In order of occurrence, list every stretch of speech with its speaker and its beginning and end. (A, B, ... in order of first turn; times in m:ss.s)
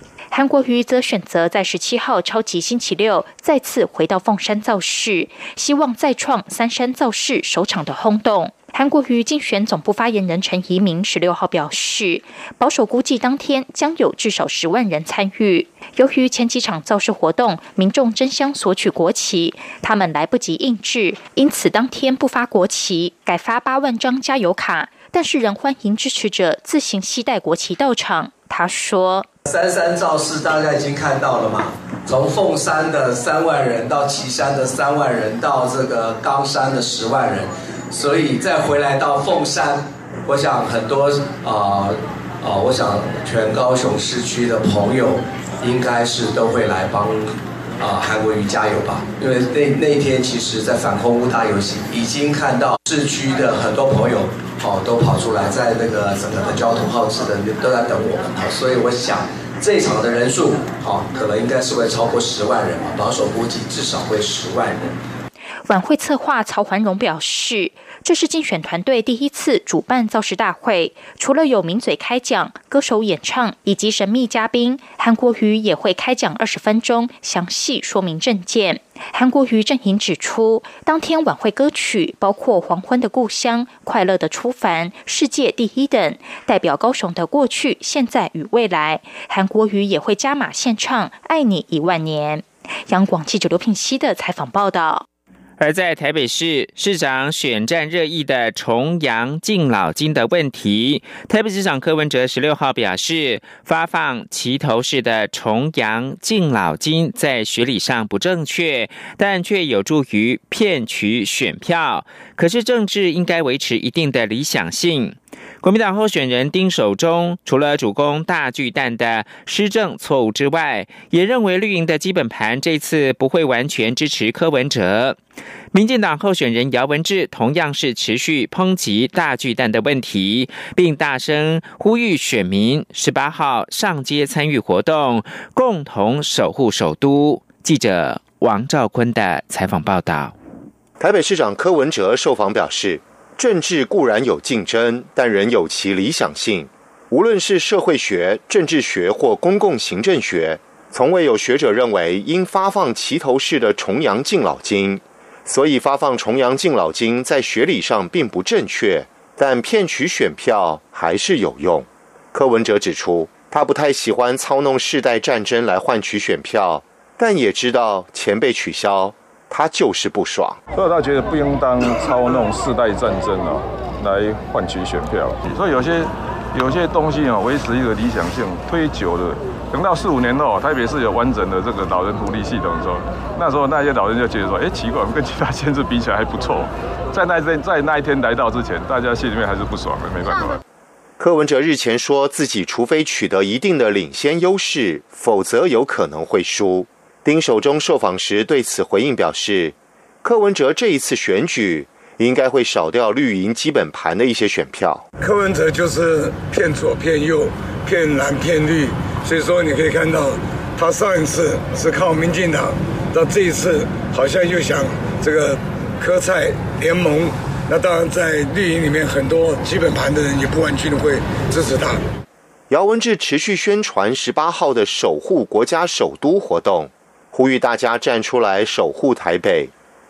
0:00.3-0:29.3 A
0:29.4-1:04.9 B
1:05.7-1:35.0 A
1:35.6-2:05.2 C
2:05.7-2:20.3 C
2:21.0-2:50.6 D
2:50.7-3:10.6 E
3:11.2-3:25.0 D
3:25.2-3:42.0 F
3:42.7-3:49.7 D